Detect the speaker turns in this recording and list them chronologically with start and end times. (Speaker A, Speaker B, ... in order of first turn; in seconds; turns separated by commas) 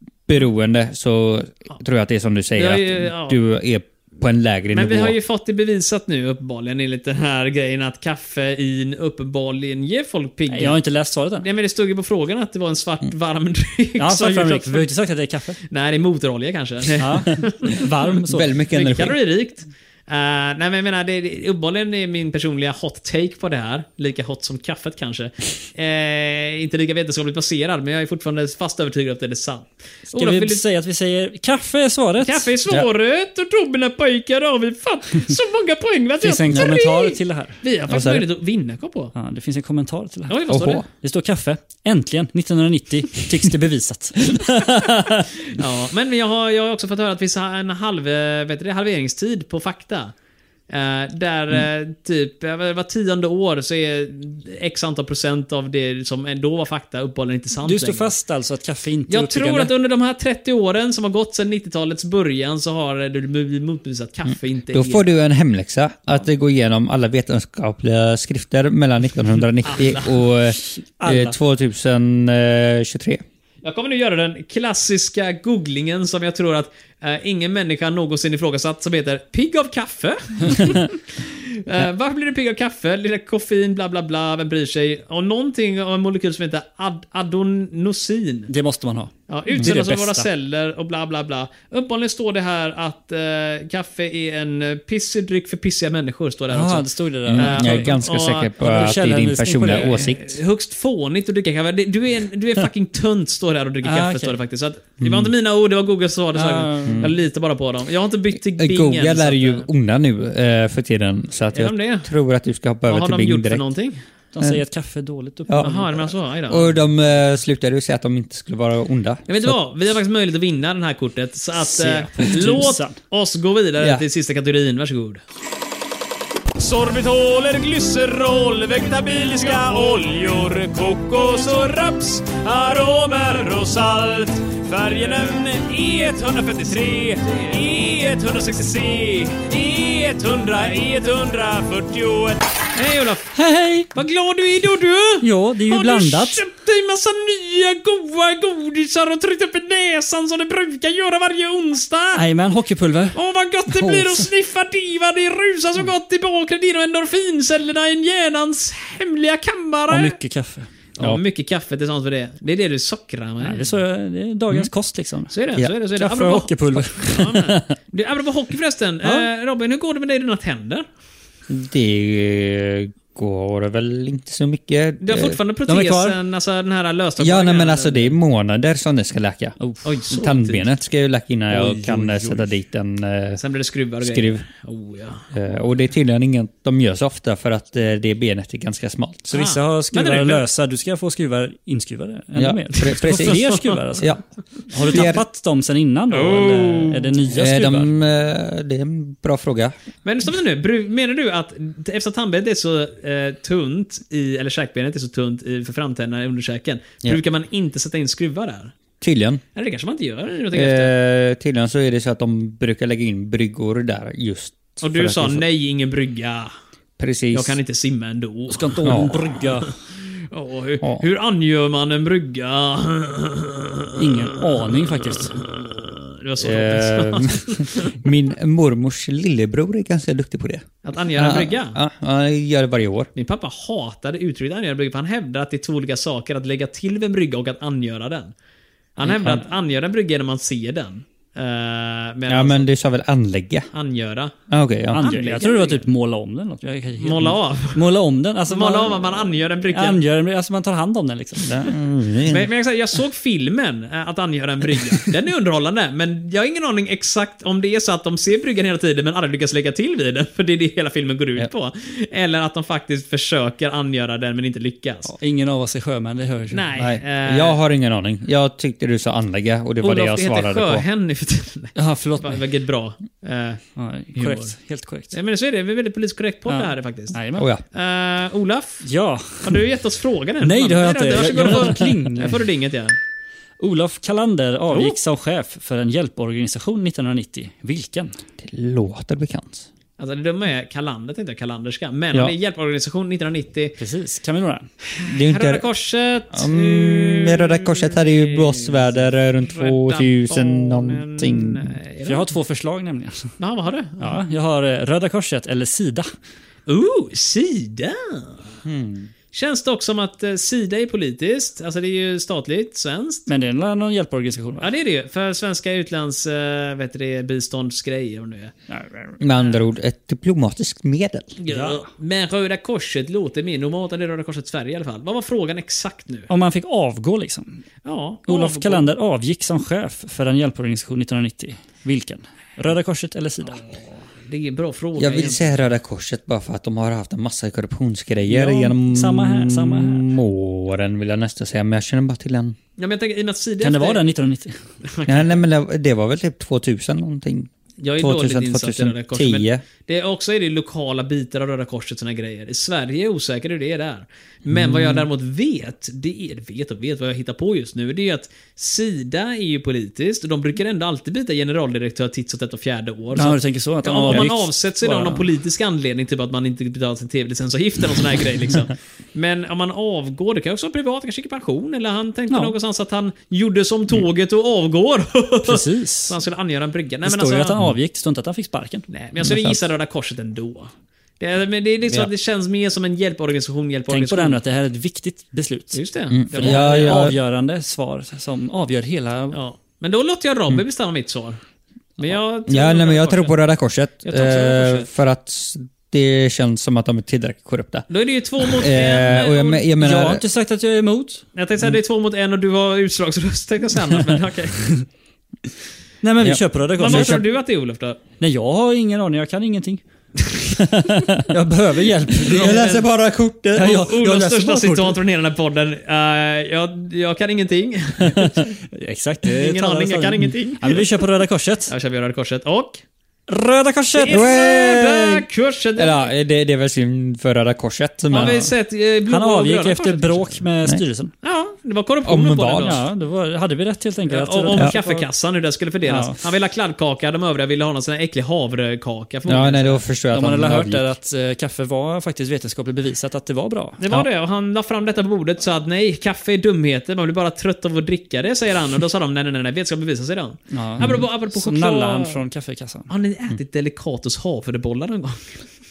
Speaker A: 0.3-5.2, Speaker B: 2.5-3.4, Speaker B: 4.7-10.8, Speaker C: 10.5-11.5, Speaker B: 11.4-14.9, Speaker C: 14.0-15.6, Speaker B: 15.7-17.8, Speaker C: 17.0-18.5, Speaker A: 18.3-19.2, Speaker B: 18.7-30.6, Speaker C: 30.1-32.5, Speaker B: 32.2-39.1, Speaker C: 36.2-37.6, Speaker A: 37.9-38.3, Speaker C: 39.1-44.3, Speaker B: 40.3-40.8, Speaker A: 40.5-40.8, Speaker A: 44.3-45.2, Speaker B: 45.5-50.1, Speaker B: 50.7-58.1, Speaker C: 57.6-59.7, Speaker B: 59.1-65.1, Speaker A: 64.7-73.2, Speaker B: 69.6-70.2, Speaker C: 71.0-71.3, Speaker B: 73.6-88.5, Speaker C: 88.5-90.3, Speaker B: 89.3-98.9, Speaker C: 96.5-98.0, Speaker A: 97.3-100.2, Speaker C: 98.6-100.1, Speaker B: 99.6-109.7, Speaker C: 103.8-104.3, Speaker A: 105.0-105.3, Speaker C: 106.3-107.1, Speaker A: 106.8-107.1, Speaker A: 108.5-113.6, Speaker B: 111.5-112.1, Speaker B: 112.9-114.0, Speaker C: 114.3-116.1, Speaker A: 115.5-115.8, Speaker B: 115.6-116.7, Speaker A: 116.5-119.5, Speaker B: 119.3-125.2, Speaker C: 121.7-123.0, Speaker B: 126.6-143.4, Speaker C: 143.3-143.9, Speaker B: 143.9-152.2, Speaker C: 145.2-146.4, Speaker C: 152.1-153.2, Speaker B: 153.1-160.2, Speaker A: 153.8-154.1, Speaker C: 159.9-160.7, Speaker B: 160.9-163.7, Speaker C: 163.4-165.3, Speaker B: 165.3-170.8, Speaker C: 165.9-167.5, Speaker A: 171.5-175.4, Speaker B: 175.0-178.2, Speaker C: 175.7-176.2, Speaker A: 177.2-179.6, Speaker C: 179.6-179.8, Speaker B: 179.8-180.7, Speaker A: 180.1-183.4, Speaker C: 181.5-182.4, Speaker B: 183.4-185.3, Speaker A: 184.0-184.4, Speaker A: 185.3-189.3, Speaker C: 189.3-194.1, Speaker B: 189.3-190.4, Speaker A: 192.3-194.2, Speaker B: 193.2-193.7, Speaker C: 194.7-197.9, Speaker A: 194.8-195.2, Speaker B: 196.1-197.2, Speaker A: 197.3-199.7, Speaker B: 200.0-208.7, Speaker A: 209.0-209.4, Speaker B: 209.5-210.9, Speaker A: 210.5-215.4, Speaker B: 214.8-216.5, Speaker A: 217.0-217.6, Speaker B: 217.3-219.7, Speaker C: 218.5-219.8, Speaker A: 218.8-219.2, Speaker B: 220.3-227.9, Speaker C: 224.0-225.3, Speaker A: 226.4-233.1, Speaker B: 230.8-231.8, Speaker B: 233.1-238.3, Speaker B: 238.9-242.7, Speaker A: 242.3-243.7, Speaker B: 243.7-244.3, Speaker A: 244.5-245.1, Speaker C: 244.9-251.6, Speaker B: 244.9-245.8, Speaker B: 247.0-247.8, Speaker B: 248.5-250.0, Speaker A: 251.4-252.5, Speaker B: 252.2-265.1, Speaker C: 265.1-266.7, Speaker B: 266.5-267.6, Speaker A: 266.8-270.8, Speaker B: 269.8-273.6, Speaker C: 271.8-272.4, Speaker C: 273.8-275.1, Speaker B: 274.1-274.5, Speaker B: 275.1-277.2, Speaker C: 276.5-277.5, Speaker A: 277.4-277.6, Speaker B: 277.7-278.9, Speaker C: 278.8-279.6, Speaker B: 279.4-282.9, Speaker C: 280.4-282.4, Speaker C: 283.6-288.1, Speaker B: 284.7-285.0, Speaker A: 288.4-289.7, Speaker B: 290.0-293.7, Speaker C: 293.8-294.7, Speaker B: 294.9-302.3, Speaker A: 295.1-295.6, Speaker A: 296.3-301.7, Speaker C: 302.1-303.3, Speaker B: 303.4-304.2, Speaker C: 304.0-306.1, Speaker B: 306.7-308.4, Speaker A: 308.6-309.1, Speaker B: 309.3-313.3, Speaker C: 313.3-314.7, Speaker B: 314.6-318.5, Speaker C: 318.7-319.2, Speaker A: 319.2-321.3, Speaker B: 321.4-326.3, Speaker C: 321.5-321.9, Speaker C: 326.3-327.6, Speaker B: 327.8-328.9, Speaker C: 328.3-333.6, Speaker B: 333.7-335.7, Speaker A: 335.0-342.6, Speaker C: 338.3-340.1, Speaker B: 342.8-344.0, Speaker C: 343.6-344.6, Speaker B: 344.8-345.4, Speaker A: 345.1-349.6, Speaker B: 347.8-377.6, Speaker A: 354.4-355.0, Speaker C: 363.1-365.2, Speaker C: 372.3-372.5, Speaker C: 375.4-376.1, Speaker C: 377.0-378.9, Speaker B: 378.9-384.4, Speaker A: 379.2-379.6, Speaker C: 383.9-389.4, Speaker B: 385.7-387.1, Speaker A: 386.1-387.2, Speaker B: 389.3-391.4, Speaker B: 392.0-393.4, Speaker A: 392.5-397.9, Speaker B: 394.0-394.9, Speaker B: 397.9-399.6, Speaker A: 398.4-400.2, Speaker C: 399.8-401.2, Speaker B: 401.3-404.6, Speaker C: 406.0-407.2, Speaker A: 406.2-407.2, Speaker B: 406.8-408.0, Speaker C: 408.2-409.8, Speaker A: 410.8-411.1, Speaker C: 411.2-412.8, Speaker B: 412.2-412.9, Speaker A: 412.3-413.8, Speaker C: 413.6-415.0, Speaker B: 413.6-418.5, Speaker C: 418.7-421.7, Speaker B: 419.3-420.9, Speaker B: 421.7-422.8, Speaker C: 423.3-424.2, Speaker B: 423.9-426.1, Speaker A: 424.1-425.2, Speaker A: 425.8-428.5, Speaker B: 428.1-430.4, Speaker C: 428.1-428.5, Speaker C: 429.1-431.1, Speaker B: 431.2-432.8, Speaker A: 432.0-432.8, Speaker C: 432.6-435.1, Speaker B: 434.1-439.8, Speaker C: 435.8-436.2, Speaker A: 439.2-440.9, Speaker C: 440.1-443.8, Speaker B: 443.8-452.2, Speaker C: 450.5-452.9, Speaker B: 452.9-455.4